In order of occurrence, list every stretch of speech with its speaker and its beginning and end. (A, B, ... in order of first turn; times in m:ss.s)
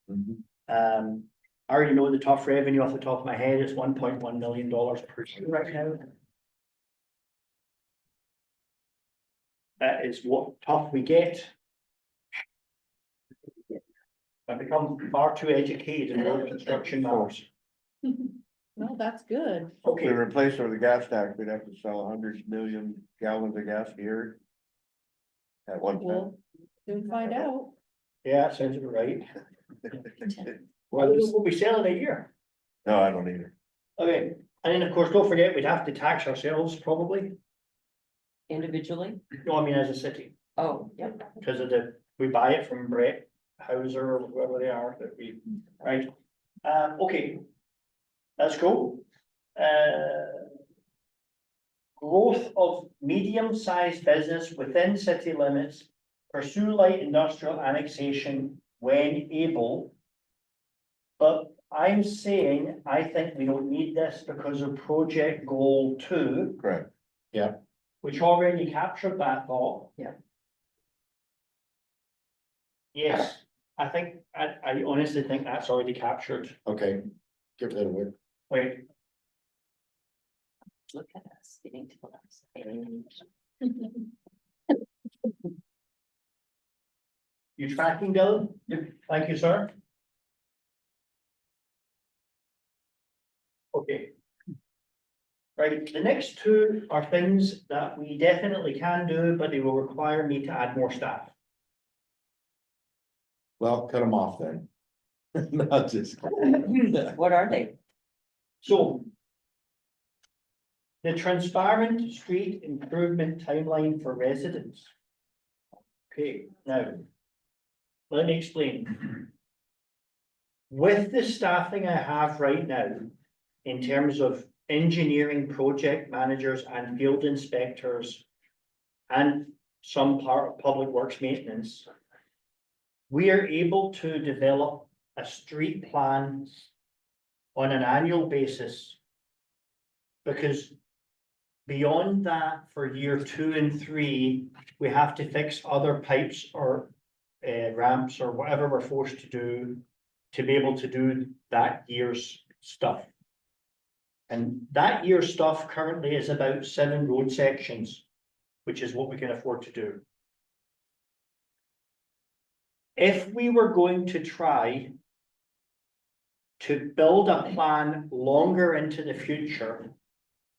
0:00.7-0:05.8 A
0:09.8-0:11.5 A
0:14.5-0:17.5 A
0:16.7-0:17.3 B
0:18.8-0:19.8 C
0:19.8-0:20.2 A
0:19.9-0:24.4 B
0:25.7-0:26.4 B
0:26.0-0:26.3 C
0:26.9-0:27.7 C
0:28.2-0:29.3 A
0:30.9-0:31.3 D
0:30.9-0:32.3 A
0:32.8-0:33.5 B
0:34.0-0:37.4 A
0:38.5-0:39.2 E
0:39.4-0:40.4 A
0:40.6-0:41.3 E
0:41.4-0:46.1 A
0:46.6-0:47.4 A
0:48.4-0:49.0 A
0:49.6-0:50.5 A
0:52.0-0:59.9 A
1:01.2-1:06.6 A
1:06.6-1:06.9 B
1:08.0-1:10.0 A
1:12.9-1:16.6 A
1:16.7-1:17.1 D
1:17.6-1:18.1 D
1:18.5-1:18.9 A
1:20.9-1:23.2 E
1:27.6-1:29.7 A
1:33.7-1:34.1 A
1:35.6-1:41.3 A
1:43.6-1:44.7 D
1:45.4-1:47.1 D
1:46.6-1:47.8 E
1:48.6-1:49.1 A
1:51.0-1:54.9 A
1:56.1-1:57.0 A
1:58.1-1:59.3 A
2:00.7-2:03.1 A
2:03.6-2:08.3 A
2:09.1-2:11.9 A
2:13.1-2:16.7 A
2:17.6-2:19.0 A
2:20.2-2:20.8 A
2:21.7-2:33.1 A
2:34.3-2:38.0 A
2:38.6-2:40.0 A
2:43.0-2:45.0 A
2:46.6-2:49.9 A